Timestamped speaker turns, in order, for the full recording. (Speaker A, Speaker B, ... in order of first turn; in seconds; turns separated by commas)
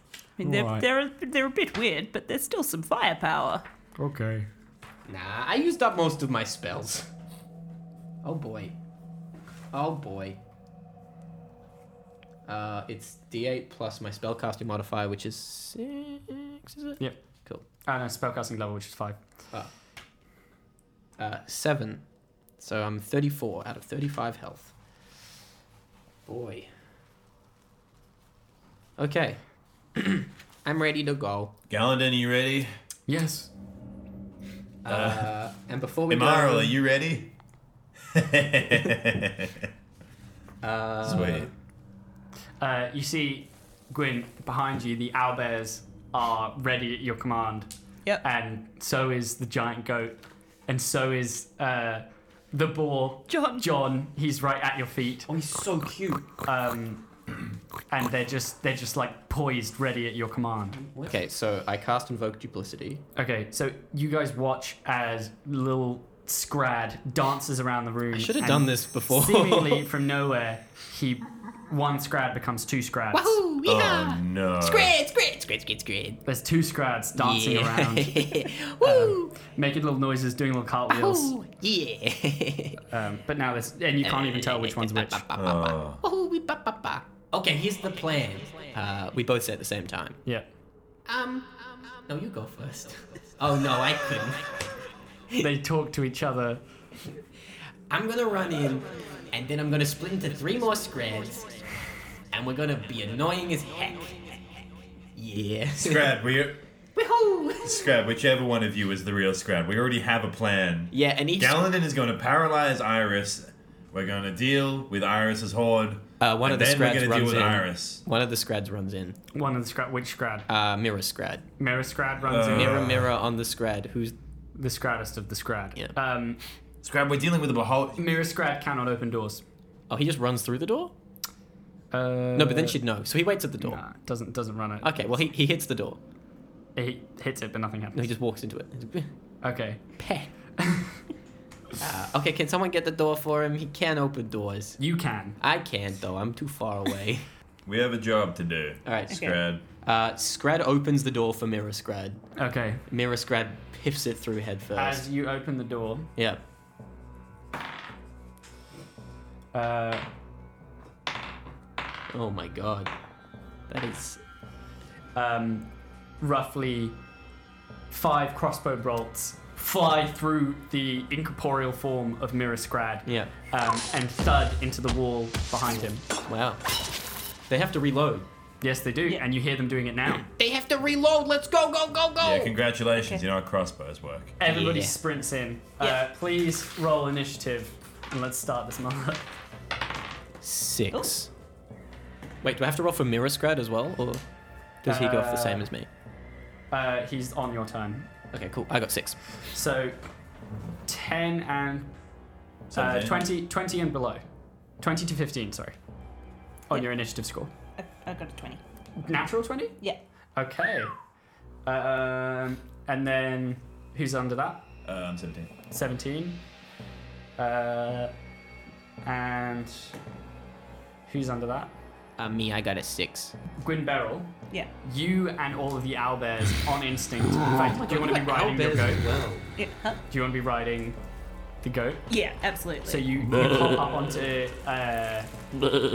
Speaker A: 0.4-3.6, Speaker B: 0.4-0.9, Speaker B: 4.0-4.5, Speaker C: 5.0-7.1, Speaker C: 8.2-8.8, Speaker C: 9.7-10.4, Speaker C: 12.4-17.6, Speaker B: 17.8-19.2, Speaker C: 21.2-22.0, Speaker C: 22.6-24.7, Speaker C: 26.2-26.7, Speaker C: 29.0-29.4, Speaker C: 29.9-31.6, Speaker D: 31.7-32.8, Speaker B: 33.1-33.5, Speaker C: 34.8-36.8, Speaker D: 34.9-35.3, Speaker D: 36.1-37.3, Speaker D: 38.1-39.6, Speaker C: 40.6-41.5, Speaker D: 41.0-41.5, Speaker B: 42.6-47.7, Speaker B: 48.2-55.3, Speaker A: 53.3-53.7, Speaker C: 55.3-56.3, Speaker B: 56.5-57.0, Speaker B: 57.9-60.9, Speaker C: 60.8-63.0, Speaker B: 63.1-73.4, Speaker C: 68.1-69.9, Speaker C: 73.1-76.2, Speaker D: 73.6-74.9, Speaker B: 76.2-81.3, Speaker C: 77.1-79.4, Speaker C: 80.9-82.8, Speaker B: 82.9-85.2, Speaker C: 84.0-90.2, Speaker D: 85.3-86.0, Speaker C: 91.0-94.6, Speaker B: 95.4-96.6, Speaker C: 97.9-101.5, Speaker C: 102.3-104.3, Speaker C: 105.1-106.2, Speaker D: 105.8-106.6, Speaker C: 106.9-107.9, Speaker D: 107.6-118.0, Speaker C: 110.9-111.7, Speaker C: 116.2-119.2, Speaker B: 119.3-120.5, Speaker C: 120.5-121.4, Speaker B: 121.6-122.9, Speaker D: 122.2-123.1, Speaker C: 122.4-124.2, Speaker B: 124.5-126.4, Speaker D: 126.8-128.1, Speaker B: 128.0-129.4, Speaker C: 129.9-130.9, Speaker B: 131.9-132.8, Speaker C: 132.3-133.8, Speaker B: 133.6-134.9, Speaker C: 134.8-136.0, Speaker B: 136.8-138.1, Speaker C: 137.9-139.1, Speaker B: 139.4-139.8, Speaker C: 140.0-140.3, Speaker B: 140.6-141.0, Speaker C: 141.8-144.8, Speaker B: 144.8-145.4, Speaker C: 145.4-147.2, Speaker D: 147.7-149.6, Speaker C: 148.8-152.2, Speaker A: 149.1-149.4, Speaker B: 152.4-152.8, Speaker C: 152.9-155.1, Speaker B: 154.8-156.1, Speaker B: 159.5-160.1, Speaker C: 162.1-162.9, Speaker C: 163.7-164.2, Speaker B: 165.1-165.7, Speaker B: 166.2-167.0, Speaker B: 167.9-176.0, Speaker C: 173.1-173.3, Speaker C: 175.7-176.6, Speaker C: 177.5-178.3, Speaker B: 178.6-180.3, Speaker C: 180.2-182.6, Speaker D: 182.2-184.3, Speaker B: 184.4-189.2, Speaker C: 184.4-185.0, Speaker C: 190.4-191.3, Speaker C: 192.4-194.2, Speaker C: 194.8-195.9, Speaker B: 194.8-195.7, Speaker B: 196.7-198.1, Speaker C: 198.3-199.2, Speaker B: 199.5-200.0, Speaker B: 200.8-201.9, Speaker D: 202.7-203.2, Speaker B: 202.7-204.2, Speaker B: 204.8-205.8, Speaker B: 206.7-207.5, Speaker A: 207.8-208.6, Speaker B: 209.0-209.8, Speaker B: 210.4-210.9, Speaker B: 211.7-214.7, Speaker D: 214.8-215.5, Speaker B: 215.7-216.4, Speaker B: 217.4-218.1, Speaker B: 219.0-219.9, Speaker B: 221.1-221.7, Speaker C: 222.2-223.3, Speaker B: 223.6-229.0, Speaker C: 227.4-229.5, Speaker A: 229.6-230.0, Speaker B: 230.1-231.0, Speaker B: 231.6-232.1, Speaker A: 232.1-233.0, Speaker B: 232.8-235.3